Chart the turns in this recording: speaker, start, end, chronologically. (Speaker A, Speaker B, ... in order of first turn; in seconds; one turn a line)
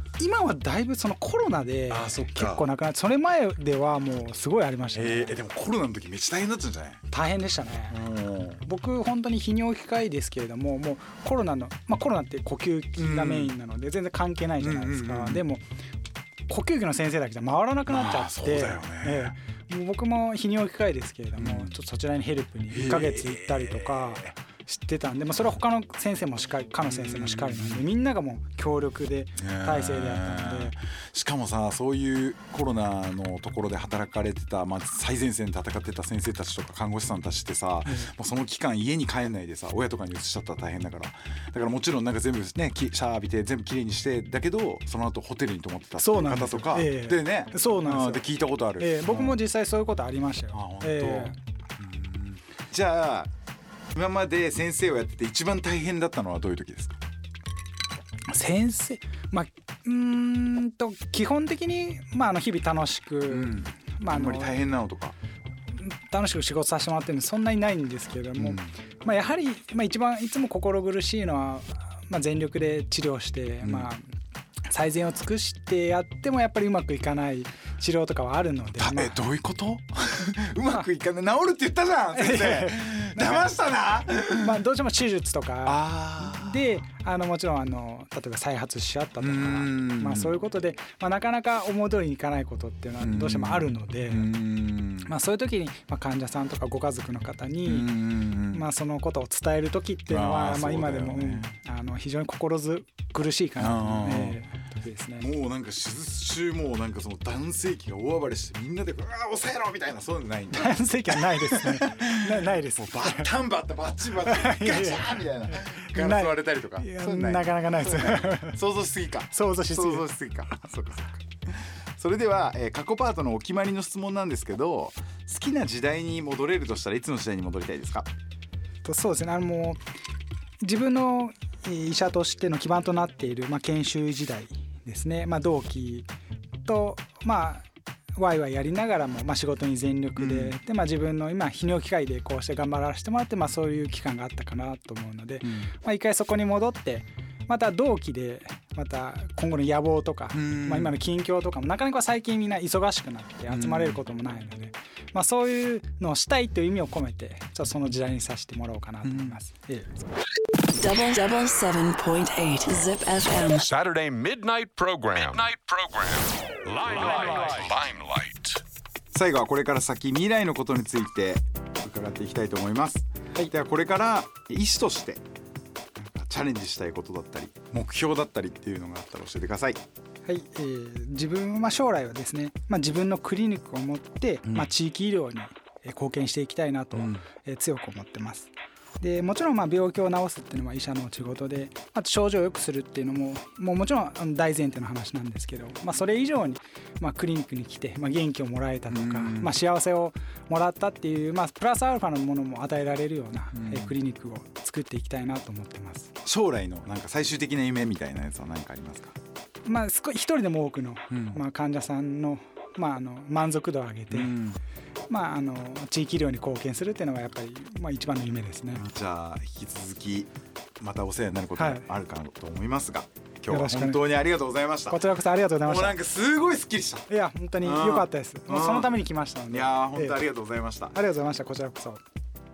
Speaker A: 0.2-5.3
Speaker B: 1.9-2.7
Speaker B: 4.9-7.0
Speaker A: 7.1-8.0
Speaker B: 7.9-8.6
Speaker A: 8.6-15.6
Speaker B: 13.0-13.6
Speaker B: 14.6-15.4
Speaker A: 16.5-30.8
Speaker B: 17.9-19.3
Speaker B: 21.4-21.7
Speaker B: 22.7-24.3
Speaker B: 26.8-27.9
Speaker B: 29.4-49.4
Speaker A: 46.0-48.2
Speaker A: 48.8-51.4
Speaker B: 50.5-53.3
Speaker B: 53.9-57.0
Speaker A: 58.3-64.6
Speaker B: 63.3-65.2
Speaker A: 65.7-74.0
Speaker B: 68.4-68.7
Speaker B: 73.6-73.9
Speaker A: 74.7-79.2
Speaker B: 78.8-84.6
Speaker A: 82.1-83.5
Speaker A: 84.2-94.3
Speaker B: 85.6-86.8
Speaker B: 89.2-90.3
Speaker B: 93.0-95.1
Speaker A: 95.0-98.0
Speaker B: 97.7-98.6
Speaker A: 98.5-105.3
Speaker B: 100.1-101.5
Speaker B: 103.6-104.4
Speaker B: 105.2-128.1
Speaker A: 110.5-113.3
Speaker A: 114.2-118.6
Speaker A: 119.3-120.1
Speaker A: 128.8-129.8
Speaker A: 130.6-136.1
Speaker A: 136.6-137.6
Speaker A: 138.2-159.9
Speaker B: 140.2-140.6
Speaker B: 145.4-145.7
Speaker B: 150.3-151.0
Speaker B: 153.5-154.0
Speaker B: 159.0-159.4
Speaker C: 160.7-163.7
Speaker D: 163.6-168.6
Speaker B: 169.1-175.2
Speaker B: 176.0-179.8
Speaker A: 180.2-206.1
Speaker B: 184.4-184.7
Speaker B: 186.9-187.2
Speaker B: 198.9-199.6
Speaker B: 203.5-204.0
Speaker B: 206.2-209.1
Speaker A: 209.6-214.3
Speaker B: 211.1-211.4
Speaker B: 214.1-214.6
Speaker A: 215.1-218.8
Speaker B: 218.7-225.1
Speaker A: 221.6-221.8
Speaker A: 223.5-224.0
Speaker A: 224.9-226.0
Speaker B: 225.6-227.1
Speaker A: 227.1-230.2
Speaker B: 227.6-230.9
Speaker A: 230.9-232.0